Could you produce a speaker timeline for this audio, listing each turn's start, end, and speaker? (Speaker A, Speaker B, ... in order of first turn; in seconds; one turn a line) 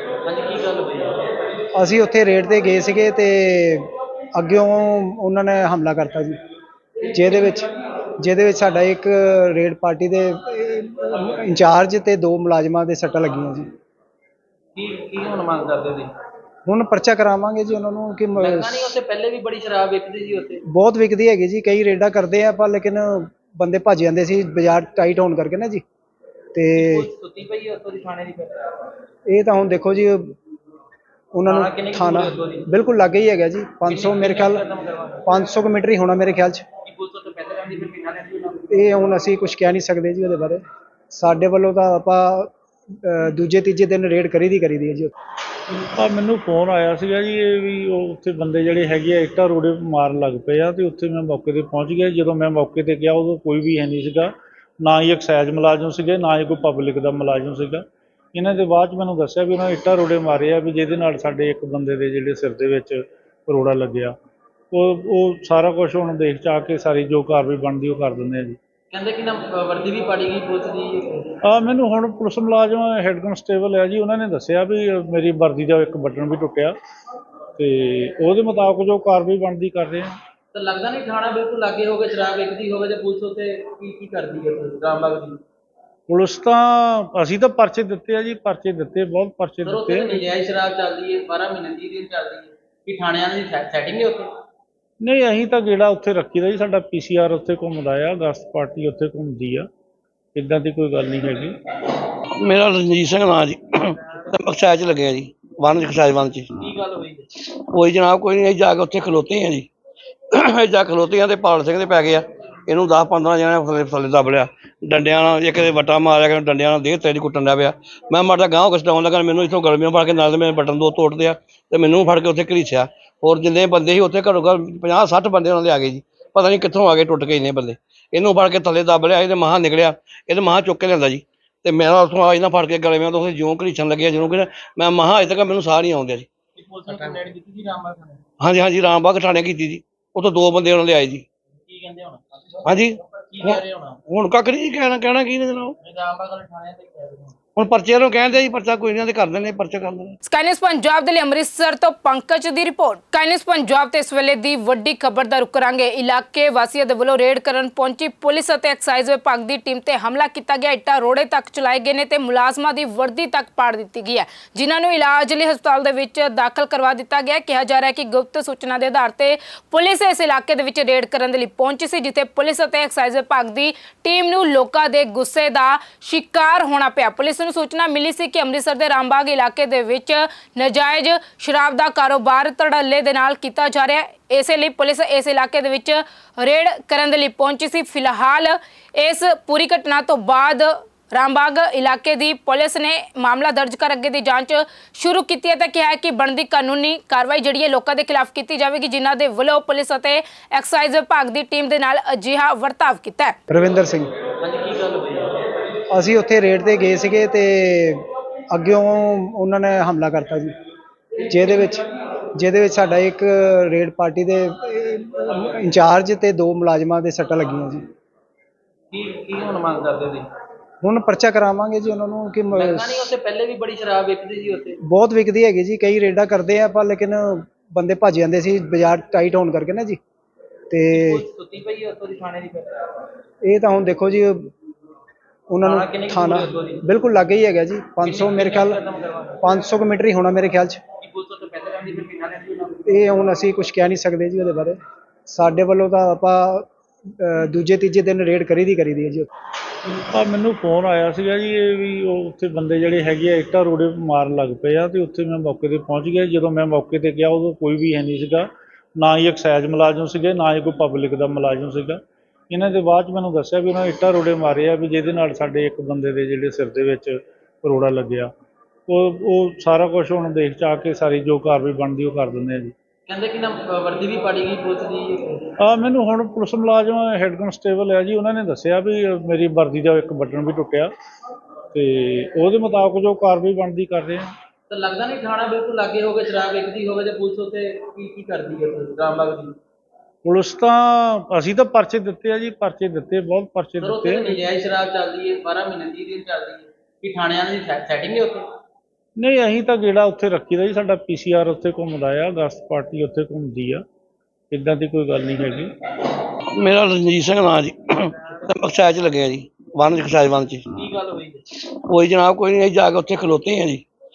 Speaker A: 0.2-1.2
Speaker B: 1.7-6.4
Speaker B: 7.0-13.7
Speaker A: 14.7-16.1
Speaker B: 16.6-18.9
Speaker A: 18.4-20.6
Speaker B: 20.7-25.8
Speaker B: 26.5-27.1
Speaker A: 26.7-28.7
Speaker B: 29.3-30.3
Speaker B: 31.3-34.6
Speaker A: 31.4-32.7
Speaker A: 33.9-35.3
Speaker B: 35.2-36.6
Speaker A: 36.8-38.9
Speaker B: 38.7-42.5
Speaker B: 43.0-45.1
Speaker C: 46.0-64.1
Speaker C: 64.7-68.6
Speaker A: 68.9-71.2
Speaker C: 71.4-76.7
Speaker C: 77.6-80.1
Speaker A: 80.5-85.4
Speaker C: 86.1-90.2
Speaker A: 89.6-94.3
Speaker C: 95.0-99.7
Speaker C: 100.3-101.5
Speaker D: 102.4-106.5
Speaker A: 106.6-107.3
Speaker D: 107.4-109.7
Speaker D: 110.3-136.3
Speaker A: 136.5-138.2
Speaker D: 138.4-141.2
Speaker A: 141.6-144.0
Speaker D: 142.7-145.7
Speaker A: 145.8-147.4
Speaker D: 147.6-150.2
Speaker E: 150.2-203.3
Speaker B: 203.5-204.1
Speaker A: 204.4-205.3
Speaker B: 205.9-210.5
Speaker B: 211.2-211.8
Speaker B: 212.3-217.8
Speaker A: 218.9-220.3
Speaker B: 220.8-223.1
Speaker A: 222.5-224.8
Speaker B: 224.8-230.0
Speaker B: 230.7-231.2
Speaker A: 230.9-232.9
Speaker B: 233.4-234.5
Speaker B: 235.5-238.8
Speaker A: 235.6-236.8
Speaker A: 238.0-239.4
Speaker B: 239.4-240.8
Speaker A: 241.0-243.1
Speaker B: 242.9-246.7
Speaker B: 247.2-249.3
Speaker C: 250.1-258.5
Speaker C: 259.0-268.3
Speaker C: 268.9-272.7
Speaker A: 273.1-275.4
Speaker C: 275.6-280.9
Speaker C: 281.7-284.3
Speaker A: 284.7-289.5
Speaker C: 290.2-294.4
Speaker A: 293.8-298.5
Speaker C: 299.2-303.8
Speaker C: 304.5-305.7
Speaker D: 306.6-310.7
Speaker A: 310.7-311.4
Speaker D: 311.6-313.8